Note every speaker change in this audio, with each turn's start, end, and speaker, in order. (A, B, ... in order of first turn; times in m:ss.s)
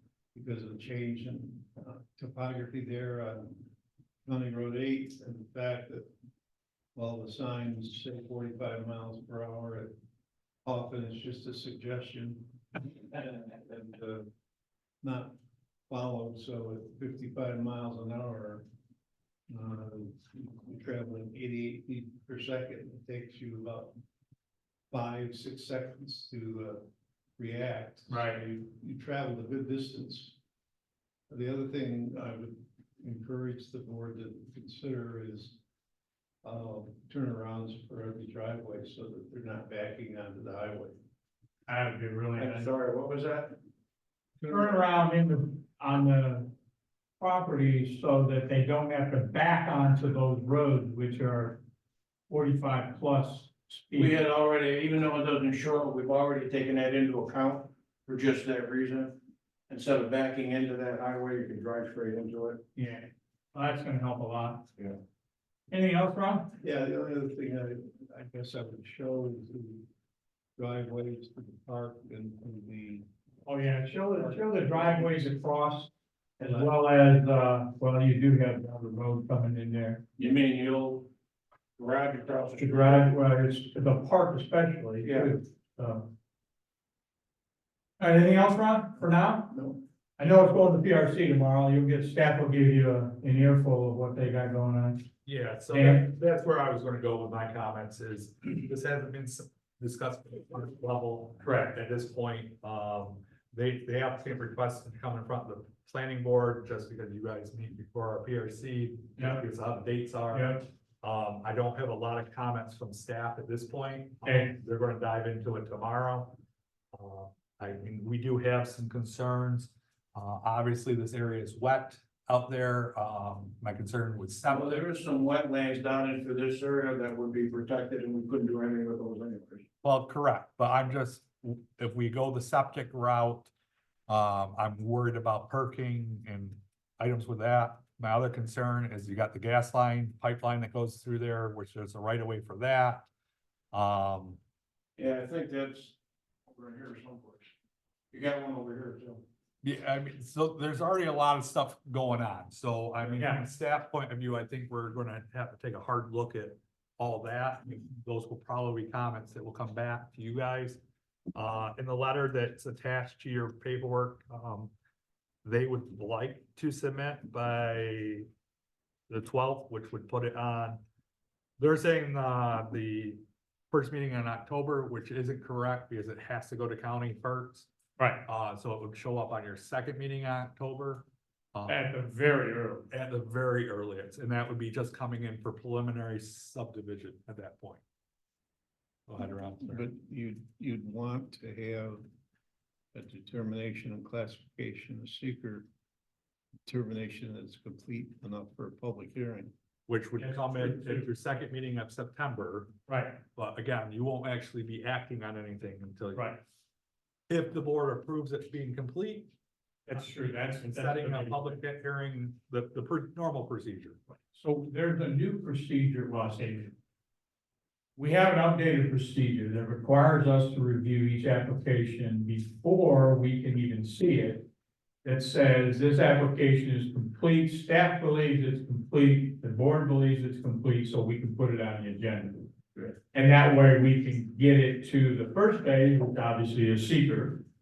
0:00.3-0:03.7 A
0:04.2-0:06.1 A
0:06.9-0:09.9 A
0:10.6-0:14.3 A
0:15.0-0:15.3 A
0:15.9-0:18.6 A
0:19.5-0:23.9 A
0:24.9-0:26.9 A
0:27.4-0:30.4 A
0:28.1-0:28.4 B
0:31.3-0:35.6 A
0:36.4-0:41.0 A
0:41.7-0:42.7 B
0:42.4-0:43.6 C
0:44.4-0:46.5 B
0:47.2-0:51.6 B
0:52.3-0:54.1 B
0:53.9-0:59.2 C
0:59.7-1:02.6 C
1:02.7-1:04.6 B
1:05.7-1:06.5 B
1:06.6-1:09.9 A
1:10.6-1:13.0 A
1:13.4-1:20.0 B
1:14.2-1:15.2 A
1:16.4-1:16.7 A
1:20.2-1:21.1 C
1:21.8-1:23.1 C
1:22.6-1:26.1 B
1:25.0-1:25.3 C
1:28.0-1:35.0 B
1:35.2-1:56.4 D
1:35.7-1:36.1 B
1:41.4-1:41.7 B
1:50.3-1:50.6 B
1:54.2-1:54.5 B
1:56.9-2:04.8 D
2:04.5-2:09.6 C
2:09.8-2:13.5 D
2:14.1-2:23.1 D
2:23.7-2:24.4 D
2:25.0-2:26.0 C
2:26.5-2:27.5 C
2:28.1-2:29.2 C
2:29.6-2:40.8 D
2:41.3-2:44.7 D
2:45.4-2:48.3 D
2:49.1-2:50.8 D
2:51.6-2:57.7 D
2:58.0-2:58.2 B
2:58.2-3:01.8 D
3:01.7-3:02.8 B
3:02.9-3:07.8 D
3:09.1-3:09.9 D
3:09.6-3:12.0 A
3:12.9-3:15.7 A
3:16.6-3:19.5 A
3:19.9-3:22.7 D
3:20.2-3:21.0 B
3:22.9-3:23.2 B
3:23.3-3:26.3 D
3:27.3-3:29.3 D
3:29.9-3:31.5 B
3:30.7-3:34.0 D
3:34.3-3:36.7 B
3:38.0-3:44.5 B
3:45.0-3:52.5 B
3:53.1-3:57.4 B